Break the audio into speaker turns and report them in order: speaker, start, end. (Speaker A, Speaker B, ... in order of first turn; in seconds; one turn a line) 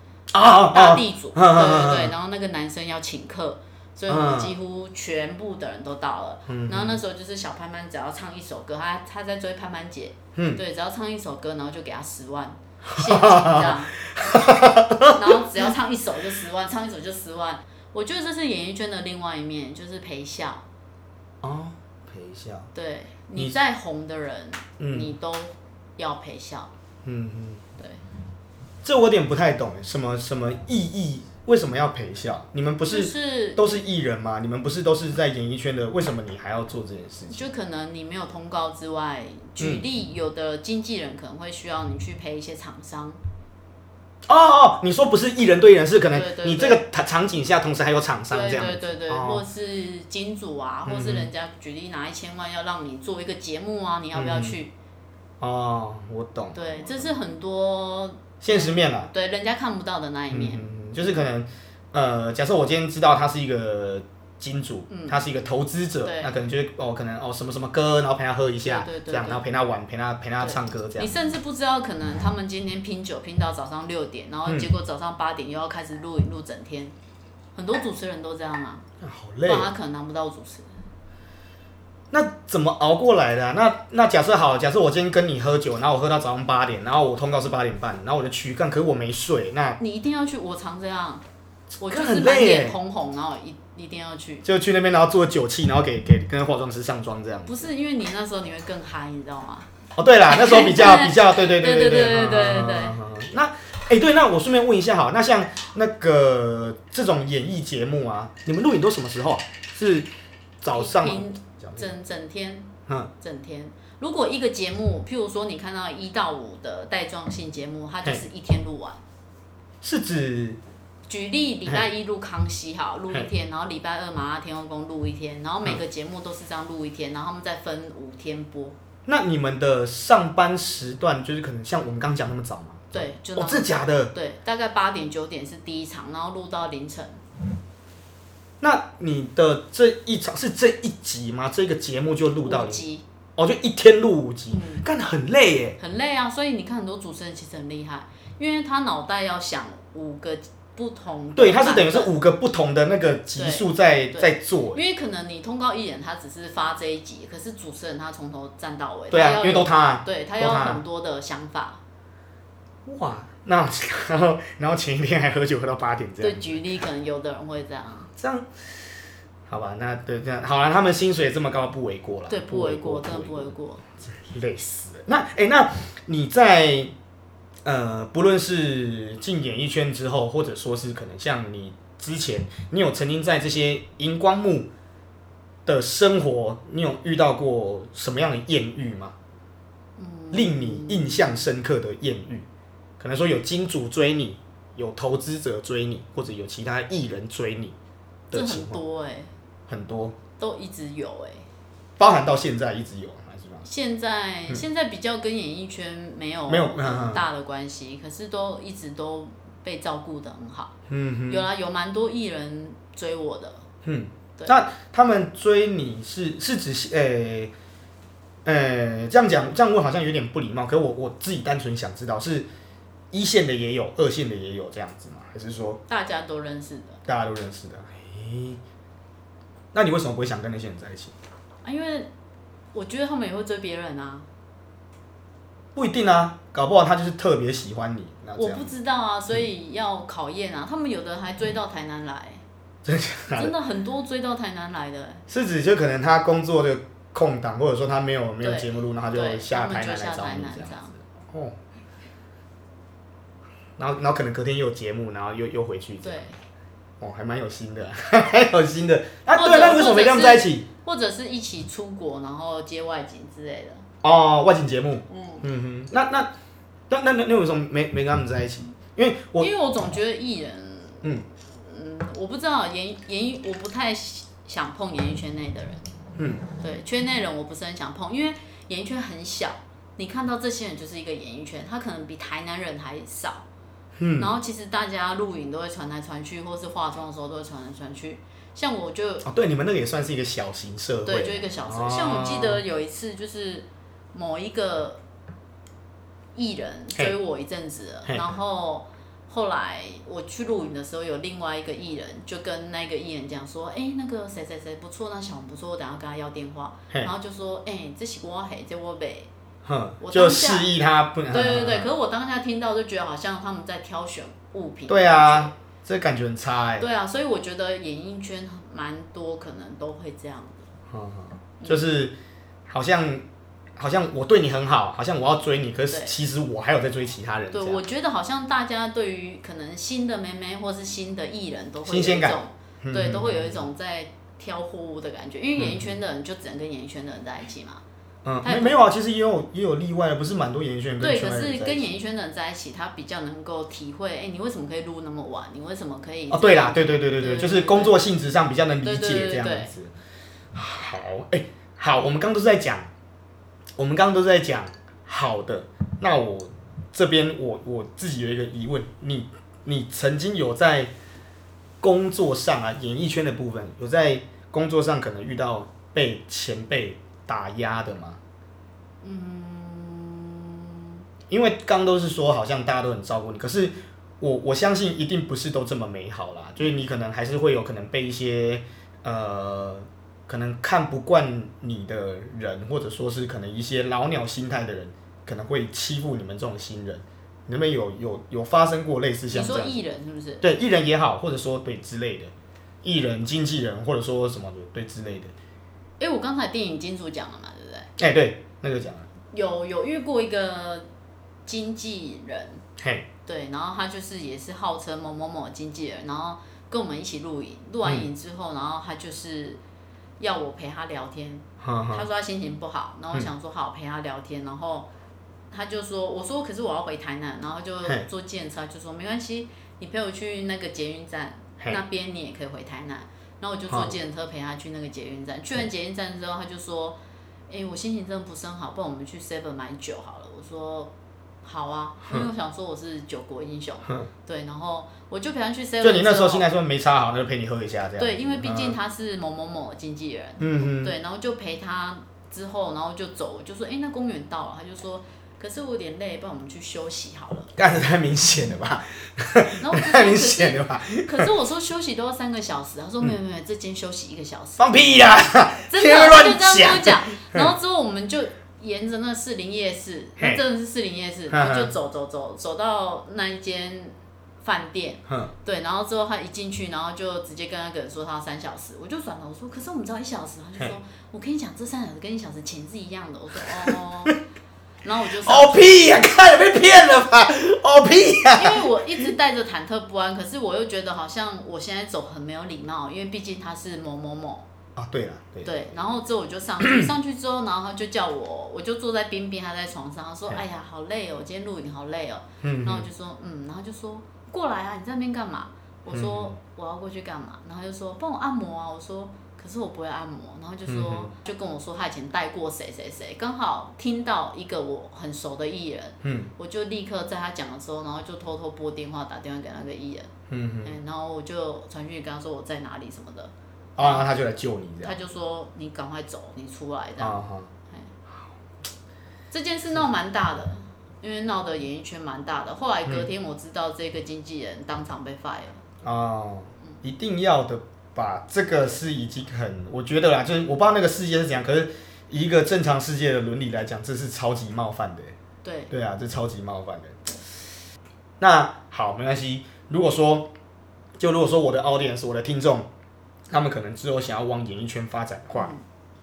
Speaker A: 0.3-2.1
Speaker B: 0.4-13.9
Speaker A: 4.1-4.5
Speaker A: 6.5-7.0
Speaker A: 10.3-10.6
Speaker A: 12.9-15.4
Speaker B: 15.1-20.6
Speaker A: 21.4-22.7
Speaker B: 22.7-26.7
Speaker A: 24.8-25.1
Speaker A: 27.0-27.6
Speaker A: 28.8-37.5
Speaker B: 32.8-33.8
Speaker B: 37.3-43.2
Speaker A: 44.3-49.4
Speaker B: 46.1-46.8
Speaker B: 48.3-54.7
Speaker A: 50.9-51.3
Speaker A: 54.1-54.6
Speaker A: 55.4-57.1
Speaker B: 56.5-60.7
Speaker A: 58.4-59.1
Speaker A: 60.3-71.1
Speaker B: 64.9-65.2
Speaker B: 66.0-66.3
Speaker B: 68.6-69.4
Speaker B: 70.4-76.9
Speaker A: 74.5-74.7
Speaker B: 77.5-78.8
Speaker A: 79.0-79.7
Speaker B: 79.4-80.7
Speaker A: 82.1-89.8
Speaker B: 89.8-91.2
Speaker B: 91.8-94.4
Speaker A: 91.8-92.8
Speaker A: 94.4-97.7
Speaker B: 97.5-99.7
Speaker A: 100.0-110.1
Speaker B: 100.3-103.0
Speaker A: 110.6-111.9
Speaker B: 110.7-119.0
Speaker A: 119.8-120.6
Speaker B: 121.1-128.7
Speaker A: 129.1-134.1
Speaker B: 132.9-137.2
Speaker A: 138.6-142.8
Speaker B: 142.4-143.0
Speaker A: 143.3-145.8
Speaker B: 144.5-144.8
Speaker B: 145.8-152.1
Speaker A: 151.3-154.8
Speaker B: 153.3-161.8
Speaker A: 159.1-160.8
Speaker A: 162.8-166.6
Speaker B: 166.2-168.1
Speaker A: 168.2-168.5
Speaker A: 169.5-176.9
Speaker B: 172.3-173.8
Speaker A: 177.6-184.7
Speaker A: 185.7-189.1
Speaker B: 190.0-191.3
Speaker A: 190.3-192.4
Speaker A: 193.0-197.8
Speaker A: 198.3-198.8
Speaker B: 198.3-199.3
Speaker A: 199.7-200.2
Speaker B: 200.4-201.4
Speaker A: 202.0-203.6
Speaker B: 203.6-210.7
Speaker A: 206.5-207.2
Speaker A: 210.9-211.5
Speaker B: 211.3-213.6
Speaker A: 213.8-217.5
Speaker A: 218.4-222.5
Speaker A: 223.1-225.8
Speaker B: 225.9-227.0
Speaker A: 227.1-228.6
Speaker A: 229.7-231.1
Speaker B: 231.6-232.1
Speaker B: 232.7-234.3
Speaker A: 235.7-238.7
Speaker B: 238.4-242.4
Speaker A: 242.8-243.5
Speaker B: 243.3-245.2
Speaker A: 245.3-251.5
Speaker B: 248.4-250.9
Speaker A: 253.8-256.2
Speaker B: 256.0-256.4
Speaker A: 257.0-260.6
Speaker B: 259.3-263.8
Speaker A: 264.0-266.3
Speaker B: 265.1-265.4
Speaker A: 266.9-269.5
Speaker B: 269.4-275.8
Speaker A: 276.2-276.4
Speaker B: 276.6-283.4
Speaker A: 284.0-284.3
Speaker B: 284.2-289.3
Speaker A: 289.2-292.6
Speaker B: 291.0-295.0
Speaker B: 296.3-309.3
Speaker A: 309.6-311.9
Speaker B: 310.0-310.7
Speaker B: 311.3-315.5
Speaker A: 314.9-316.9
Speaker B: 316.8-320.7
Speaker A: 320.9-322.1
Speaker A: 322.6-323.2
Speaker A: 323.8-327.8
Speaker B: 327.5-337.8
Speaker A: 331.9-333.6
Speaker A: 335.6-335.9
Speaker A: 338.2-341.9
Speaker B: 338.4-338.8
Speaker B: 341.0-348.0
Speaker A: 346.3-349.9
Speaker B: 348.8-349.7
Speaker A: 350.5-352.9
Speaker A: 353.8-360.9
Speaker A: 361.8-368.2
Speaker B: 369.0-370.9
Speaker A: 371.3-389.8
Speaker B: 389.3-390.4
Speaker A: 390.4-392.3
Speaker A: 392.8-395.3
Speaker B: 396.0-397.9
Speaker A: 398.0-399.1
Speaker B: 399.3-400.9
Speaker B: 401.4-402.6
Speaker A: 402.8-403.1
Speaker B: 403.2-409.6
Speaker B: 410.2-414.9
Speaker A: 411.6-412.1
Speaker B: 415.5-427.0
Speaker A: 423.7-424.0
Speaker B: 427.5-430.9
Speaker B: 431.4-436.5
Speaker A: 435.8-438.8
Speaker B: 438.0-447.5
Speaker A: 440.4-440.9
Speaker A: 447.6-451.3
Speaker B: 449.6-454.6
Speaker A: 454.6-457.5
Speaker B: 455.7-474.2
Speaker A: 461.3-461.7
Speaker B: 474.8-475.7
Speaker A: 475.2-478.6
Speaker B: 478.3-484.4
Speaker A: 484.8-485.5
Speaker B: 485.4-510.1
Speaker A: 486.6-486.9
Speaker A: 492.4-492.9
Speaker A: 495.9-496.4
Speaker A: 500.7-501.1
Speaker A: 506.0-506.3
Speaker A: 510.3-510.7
Speaker B: 510.6-514.1
Speaker A: 513.8-515.0
Speaker B: 514.8-517.9
Speaker A: 517.0-517.5
Speaker B: 519.3-525.6
Speaker A: 525.8-535.1
Speaker B: 535.4-535.7
Speaker A: 535.7-537.2
Speaker A: 538.2-540.3
Speaker A: 541.0-542.7
Speaker A: 543.3-545.5
Speaker B: 545.4-545.6